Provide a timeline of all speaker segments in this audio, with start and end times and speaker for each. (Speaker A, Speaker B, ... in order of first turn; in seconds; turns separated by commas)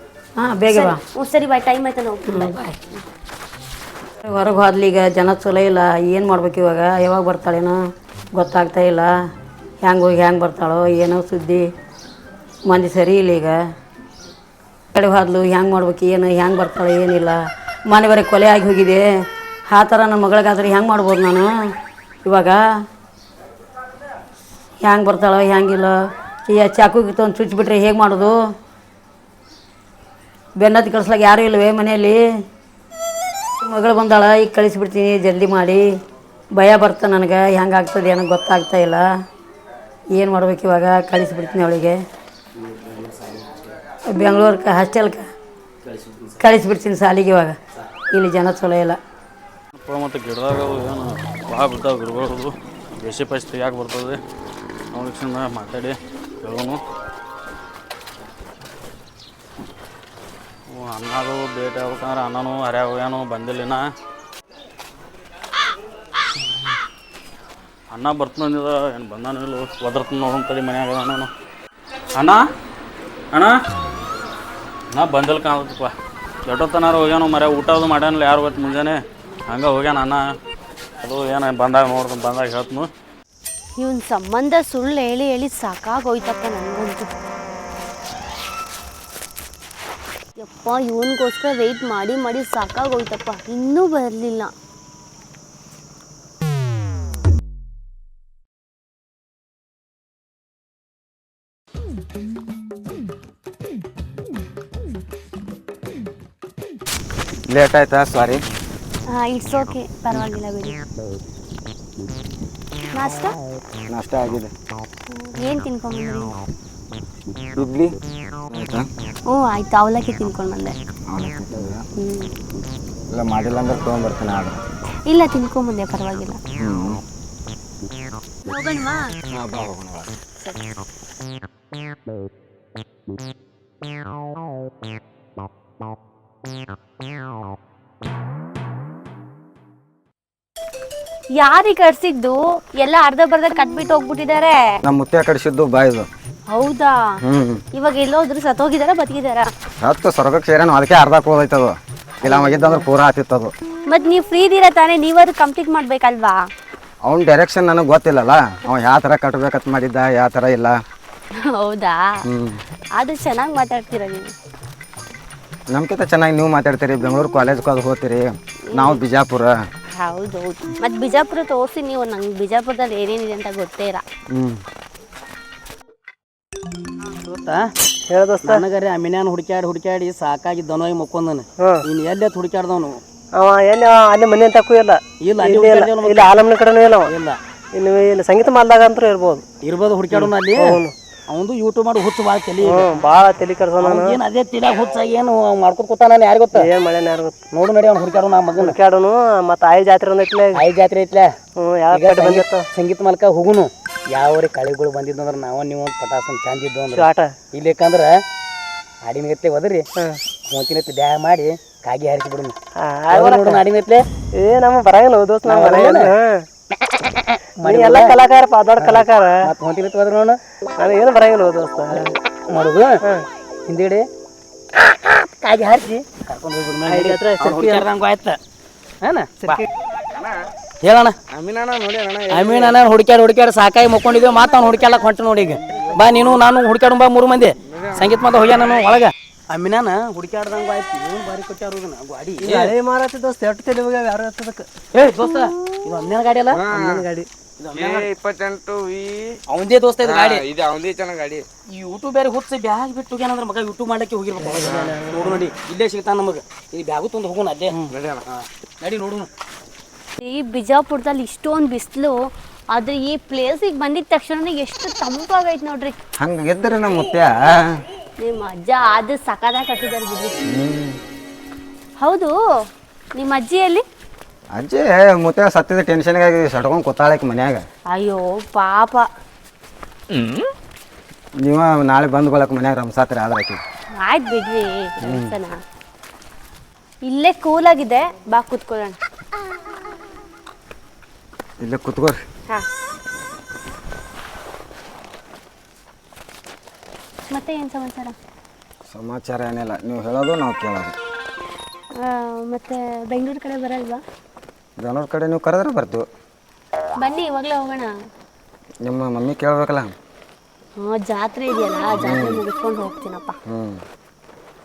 Speaker A: 0.4-1.0, Speaker B: 0.7-3.0, Speaker A: 2.3-2.8, Speaker A: 4.2-7.8, Speaker A: 8.3-9.1, Speaker A: 9.8-11.7, Speaker A: 12.7-13.6, Speaker A: 14.9-17.4, Speaker A: 17.9-19.0, Speaker A: 19.7-21.5, Speaker A: 22.2-22.6, Speaker A: 24.8-25.9, Speaker A: 26.5-28.4, Speaker A: 30.6-32.2, Speaker A: 33.6-35.8, Speaker A: 36.5-39.0, Speaker A: 40.1-42.0, Speaker C: 42.7-43.3, Speaker A: 44.1-45.3, Speaker A: 46.4-47.6, Speaker A: 48.1-49.0, Speaker D: 49.7-54.2, Speaker D: 54.9-56.8, Speaker D: 60.7-63.8, Speaker D: 67.9-71.3, Speaker D: 72.2-72.4, Speaker D: 74.9-75.9, Speaker D: 76.5-80.2, Speaker D: 81.0-82.9, Speaker B: 83.8-87.1, Speaker B: 90.4-94.5, Speaker E: 107.5-108.4, Speaker B: 109.1-110.8, Speaker B: 112.9-113.4, Speaker E: 113.9-114.5, Speaker B: 115.1-116.4, Speaker E: 117.5-117.9, Speaker E: 118.5-118.9, Speaker B: 119.3-120.7, Speaker E: 121.1-121.8, Speaker B: 122.0-122.3, Speaker E: 123.1-124.6, Speaker B: 125.1-126.4, Speaker E: 126.6-127.0, Speaker B: 128.4-129.0, Speaker E: 129.3-130.1, Speaker B: 130.4-130.8, Speaker B: 141.4-144.8, Speaker E: 144.8-146.1, Speaker B: 146.5-147.2, Speaker E: 147.2-147.6, Speaker B: 147.7-149.5, Speaker E: 149.8-153.5, Speaker B: 152.2-152.8, Speaker B: 153.9-156.4, Speaker E: 157.0-160.8, Speaker B: 161.4-162.2, Speaker E: 162.3-162.6, Speaker B: 162.9-164.3, Speaker E: 165.7-169.5, Speaker B: 168.7-169.0, Speaker B: 169.9-174.0, Speaker E: 174.3-174.6, Speaker C: 177.2-177.7, Speaker F: 178.1-178.6, Speaker C: 178.4-183.0, Speaker F: 181.6-181.8, Speaker F: 183.3-187.1, Speaker C: 185.2-186.4, Speaker C: 187.0-187.4, Speaker F: 187.7-189.4, Speaker C: 189.6-192.9, Speaker F: 190.1-190.9, Speaker F: 192.6-194.2, Speaker C: 193.8-196.7, Speaker F: 196.5-197.3, Speaker C: 197.5-198.8, Speaker F: 198.6-200.6, Speaker C: 200.5-201.3, Speaker F: 201.6-202.7, Speaker C: 201.9-208.2, Speaker F: 206.9-207.3, Speaker C: 209.0-209.8, Speaker C: 210.5-212.5, Speaker F: 212.8-213.6, Speaker C: 213.1-214.0, Speaker F: 214.3-216.4, Speaker C: 215.4-216.1, Speaker C: 216.8-218.2, Speaker F: 217.6-219.5, Speaker C: 218.8-220.4, Speaker F: 220.8-222.1, Speaker C: 222.5-223.0, Speaker C: 223.7-224.1, Speaker F: 225.1-226.0, Speaker C: 226.2-228.4, Speaker F: 226.9-227.8, Speaker C: 229.0-229.6, Speaker F: 229.4-229.6, Speaker C: 230.8-231.2, Speaker G: 231.3-232.8, Speaker C: 232.3-242.7, Speaker G: 235.9-236.3, Speaker G: 237.7-238.2, Speaker G: 242.4-242.7, Speaker F: 242.5-244.6, Speaker C: 244.9-246.6, Speaker G: 246.5-247.1, Speaker F: 246.7-247.2, Speaker C: 247.6-248.1, Speaker G: 247.7-249.4, Speaker C: 249.5-250.4, Speaker G: 250.0-251.4, Speaker C: 251.7-259.3, Speaker F: 254.4-255.3, Speaker G: 254.6-254.9, Speaker G: 257.9-258.2, Speaker B: 260.2-262.1, Speaker B: 262.7-265.9, Speaker E: 266.2-267.6, Speaker B: 268.2-270.4, Speaker E: 270.5-271.0, Speaker B: 272.0-272.3, Speaker B: 273.1-273.8, Speaker E: 274.5-277.6, Speaker B: 277.9-279.0, Speaker E: 281.4-283.6, Speaker B: 283.9-285.5, Speaker E: 285.0-285.3, Speaker B: 287.0-289.0, Speaker E: 291.6-292.2, Speaker B: 297.3-298.1, Speaker E: 298.9-300.9, Speaker B: 301.9-304.0, Speaker E: 304.8-306.1, Speaker B: 307.0-307.9, Speaker E: 308.8-309.9, Speaker B: 310.8-313.4, Speaker E: 311.9-312.4, Speaker E: 313.5-313.8